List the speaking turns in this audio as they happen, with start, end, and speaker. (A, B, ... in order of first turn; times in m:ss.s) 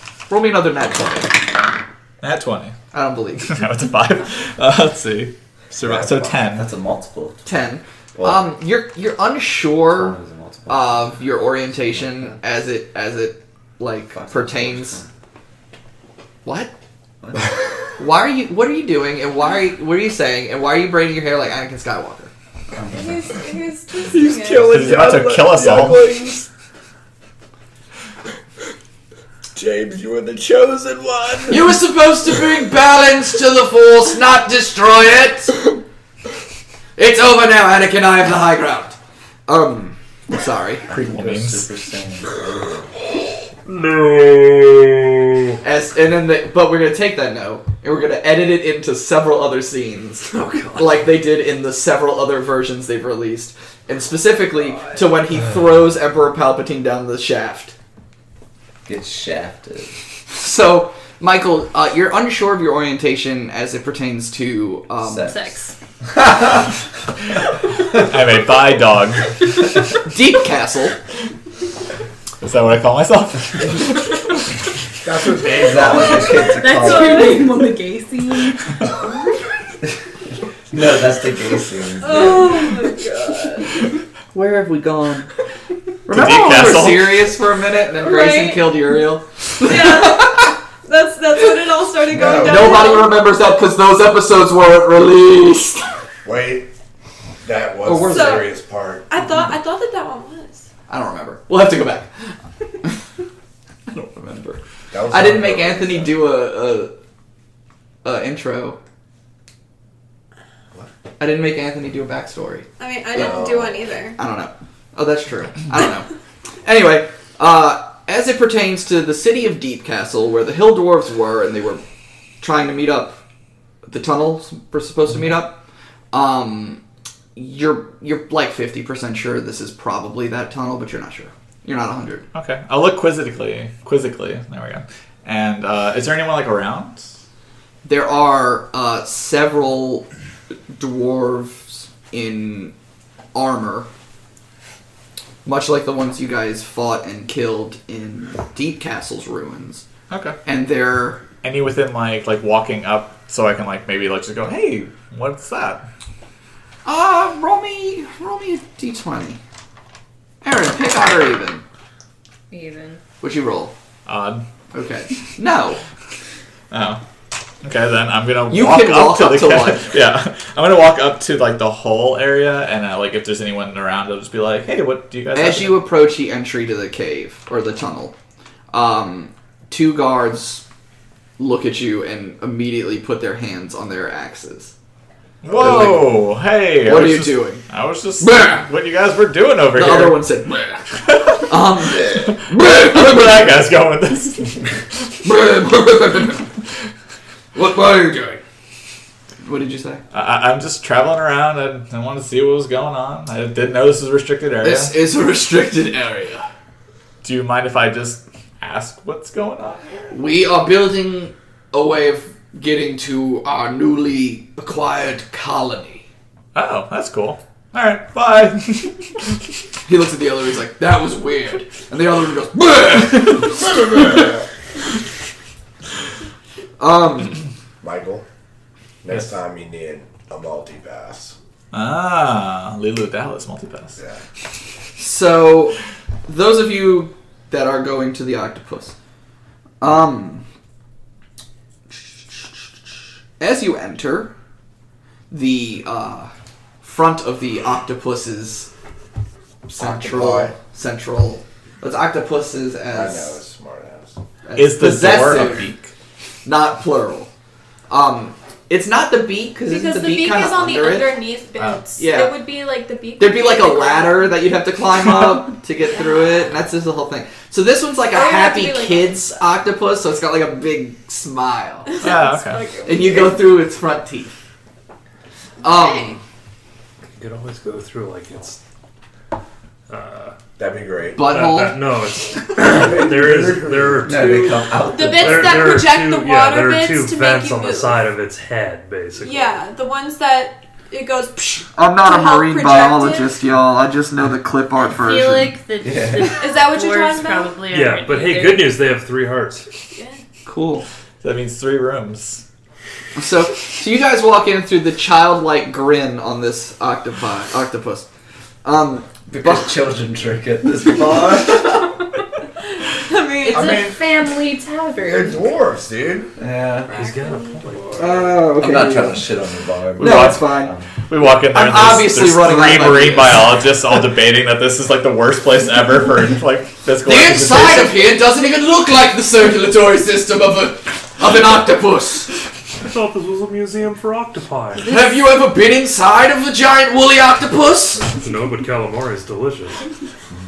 0:00.3-0:01.5 A
0:02.2-0:02.7 B
0:02.9-0:03.6 A
0:03.4-0:06.7 B
0:05.8-0:06.3 C
0:06.0-0:07.4 D
0:07.4-0:15.0 A
0:08.2-0:08.4 D
0:09.9-0:12.4 D
0:14.1-0:15.1 D
0:16.4-0:16.7 A
0:17.2-0:17.5 D
0:18.0-0:22.3 A
0:22.7-0:23.4 D
0:22.9-0:24.8 E
0:24.1-0:26.5 C
0:24.7-0:26.2 B
0:29.5-0:31.8 C
0:31.5-0:35.6 A
0:37.0-0:40.8 A
0:40.9-0:41.7 B
0:40.9-0:42.4 D
0:43.6-0:45.5 F
0:45.6-0:57.7 A
0:50.3-0:51.0 F
0:58.8-1:00.0 D
1:00.3-1:05.5 A
1:05.0-1:05.5 D
1:05.2-1:05.7 G
1:06.1-1:06.7 D
1:07.9-1:09.4 B
1:10.0-1:11.0 A
1:12.4-1:14.4 B
1:15.0-1:16.5 C
1:15.5-1:17.5 D
1:16.5-1:18.8 G
1:17.1-1:17.4 E
1:20.7-1:22.7 D
1:22.0-1:23.9 E
1:24.3-1:25.3 A
1:26.0-1:30.5 A
1:26.1-1:27.3 B
1:28.0-1:28.7 E
1:29.6-1:33.2 E
1:32.1-1:33.0 C
1:32.4-1:35.9 A
1:36.2-1:36.7 C
1:37.4-1:39.0 C
1:37.8-1:38.5 A
1:38.1-1:38.5 E
1:39.1-1:40.7 E
1:40.9-1:43.0 A
1:43.9-1:46.9 A
1:44.9-1:46.2 C
1:48.0-1:48.8 A
1:51.2-1:52.7 A
1:52.8-1:54.2 E
1:53.1-1:53.9 C
1:54.2-1:56.1 A
1:56.6-2:01.8 A
2:02.4-2:03.2 A
2:03.8-2:06.8 A
2:07.4-2:12.2 A
2:12.3-2:17.1 B
2:17.8-2:20.0 A
2:20.7-2:22.7 A
2:23.3-2:23.9 A
2:25.4-2:29.8 A
2:30.1-2:30.4 B
2:30.4-2:31.2 A
2:31.4-2:35.8 B
2:36.8-2:39.4 A
2:40.4-2:41.6 A
2:42.5-2:43.0 G
2:43.2-2:43.7 A
2:44.0-2:44.4 B
2:44.7-2:45.8 A
2:46.7-2:47.0 B
2:47.6-2:55.8 B
2:48.5-2:49.9 A
2:55.3-2:58.1 A
2:58.7-3:00.6 A
3:01.4-3:04.7 A
3:05.4-3:10.2 B
3:05.5-3:06.2 A
3:06.8-3:07.6 A
3:08.2-3:08.7 A
3:09.7-3:10.8 A
3:10.9-3:15.1 B
3:11.5-3:13.5 A
3:15.2-3:16.5 A
3:17.5-3:18.4 A
3:19.4-3:20.0 A
3:20.1-3:24.9 B
3:24.6-3:26.4 A
3:27.2-3:29.9 B
3:30.1-3:36.0 A
3:36.5-3:39.3 B
3:39.8-3:44.3 A
3:46.8-3:47.4 A
3:47.8-3:48.2 C
3:49.0-3:51.4 C
3:51.7-3:54.0 B
3:54.0-3:54.2 C
3:55.0-3:58.9 A
3:59.8-4:00.4 A
4:03.4-4:04.3 A
4:05.3-4:06.3 A
4:06.8-4:08.7 A
4:09.7-4:13.4 A
4:09.8-4:10.6 C
4:12.9-4:14.2 C
4:14.4-4:15.7 A
4:14.6-4:15.9 B
4:16.4-4:17.3 A
4:17.9-4:21.2 A
4:19.7-4:24.4 E
4:22.0-4:22.4 A
4:23.2-4:31.9 A
4:28.1-4:29.2 E
4:31.9-4:33.5 E
4:32.0-4:32.7 B
4:32.8-4:34.3 A
4:35.6-4:36.2 A
4:37.2-4:38.6 F
4:39.9-4:40.4 F
4:40.6-4:41.3 C
4:41.2-4:41.8 A
4:41.3-4:49.6 F
4:42.5-4:44.4 C
4:44.0-4:45.8 D
4:44.9-4:48.0 E
4:49.2-4:53.4 E
4:51.7-4:55.5 A
4:54.9-4:58.8 G
4:55.8-4:56.4 D
4:56.4-4:57.6 E
4:57.7-4:59.6 F
4:59.9-5:00.2 E
5:00.4-5:00.8 A
5:01.2-5:02.4 B
5:03.2-5:08.1 A
5:08.6-5:09.7 A
5:09.3-5:11.9 D
5:12.8-5:13.9 E
5:13.4-5:15.6 G
5:13.5-5:14.1 C
5:15.0-5:16.3 C
5:16.4-5:16.9 D
5:16.9-5:18.0 E
5:16.9-5:18.3 F
5:18.0-5:19.3 A
5:18.6-5:20.9 D
5:20.0-5:28.0 B
5:20.0-5:20.7 A
5:21.2-5:23.5 A
5:27.0-5:32.3 A
5:32.8-5:34.9 F
5:34.8-5:35.2 G
5:34.9-5:38.2 A
5:38.2-5:39.8 F